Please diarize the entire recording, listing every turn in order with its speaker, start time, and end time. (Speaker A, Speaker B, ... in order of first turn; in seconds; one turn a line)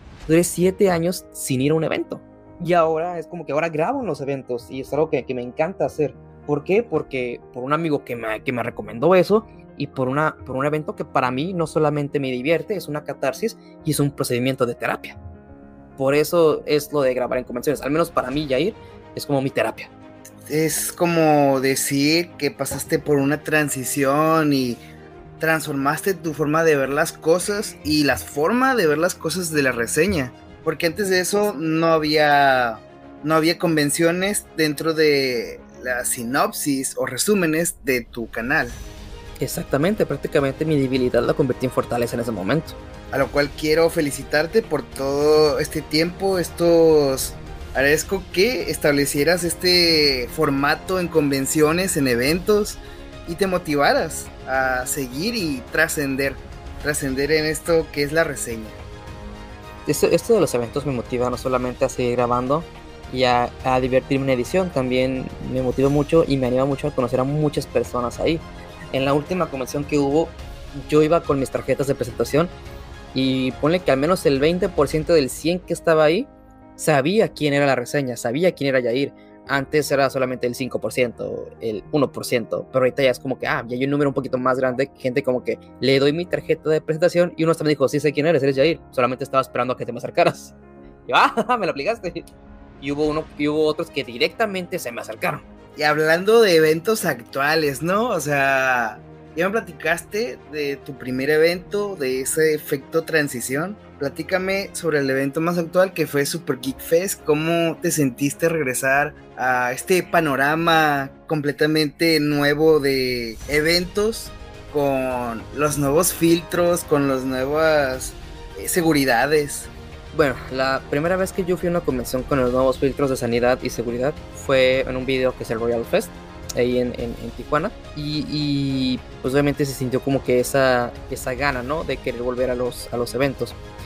Speaker A: 0.3-15.2
Speaker A: 16.0-19.9
Speaker B: 20.5-24.8
Speaker B: 25.4-38.8
Speaker A: 39.4-42.8
Speaker B: 43.1-58.8
Speaker A: 59.9-72.5
Speaker A: 73.1-90.5
Speaker A: 91.1-92.3
Speaker A: 92.8-95.4
Speaker B: 95.8-119.7
Speaker A: 120.1-133.6